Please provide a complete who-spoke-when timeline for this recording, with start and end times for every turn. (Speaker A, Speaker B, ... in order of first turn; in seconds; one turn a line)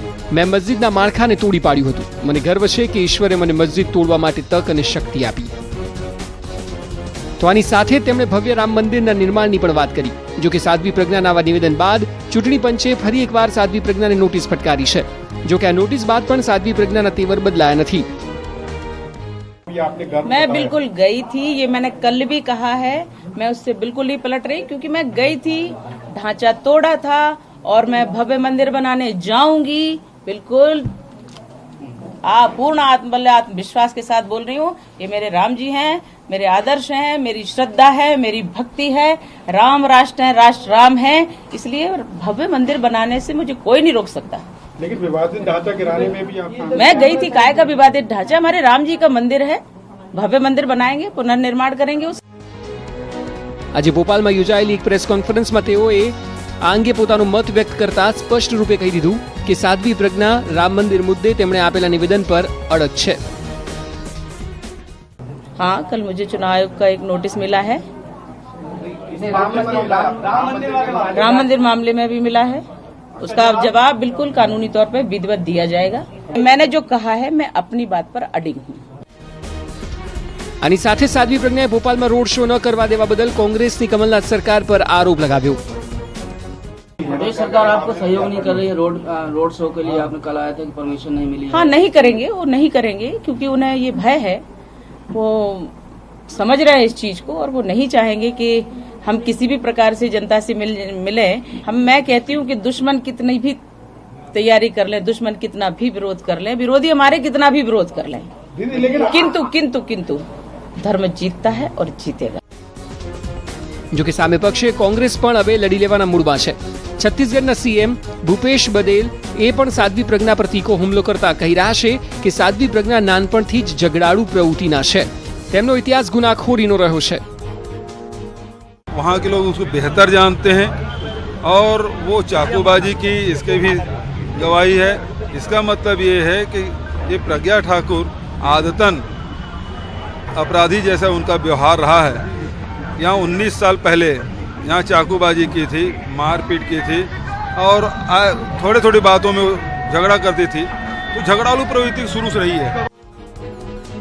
Speaker A: 0.3-5.5
Speaker A: 7.4-18.1
Speaker B: 19.7-20.7
Speaker C: 20.2-30.9
Speaker C: 32.2-44.5
Speaker B: 44.8-46.8
Speaker C: 46.7-52.2
Speaker A: 53.7-63.2
Speaker C: 65.5-67.8
Speaker C: 69.3-70.0
Speaker C: 71.1-72.6
Speaker C: 73.2-78.8
Speaker A: 80.6-85.6
Speaker D: 87.2-91.6
Speaker C: 91.5-94.4
Speaker C: 95.1-95.7
Speaker C: 96.3-103.6
Speaker C: 104.3-110.2
Speaker C: 110.8-112.4
Speaker A: 113.9-127.2
Speaker E: 128.9-130.7
Speaker E: 131.4-133.8
Speaker E: 134.4-139.0
Speaker E: 140.4-142.2
Speaker E: 143.0-152.7